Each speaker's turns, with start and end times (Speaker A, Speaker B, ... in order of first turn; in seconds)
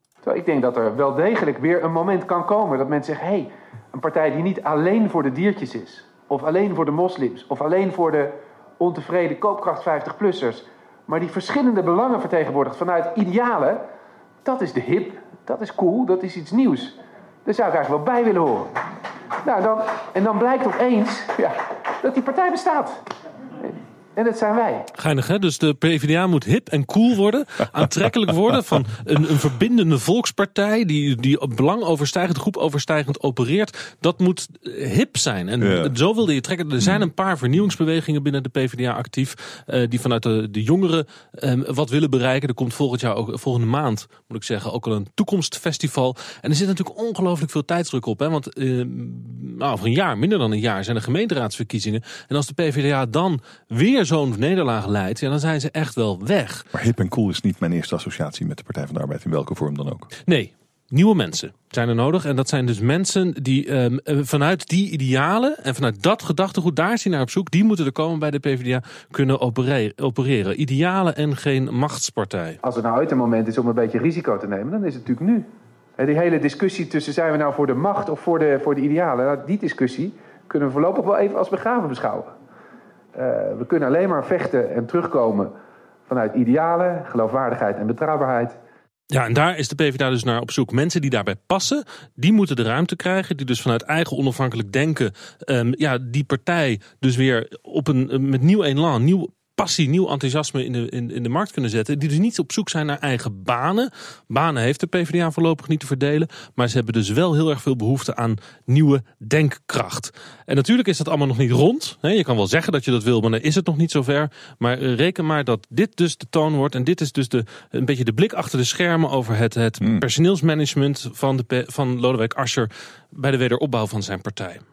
Speaker A: 0.2-13.8, 14.4-18.7, 19.4-22.9, 23.6-24.9, 72.6-75.5, 76.0-82.3, 83.1-85.5, 86.1-88.6
Speaker B: 24.9-56.6, 60.2-72.6, 89.1-124.6
Speaker C: 35.6-35.9, 56.7-60.1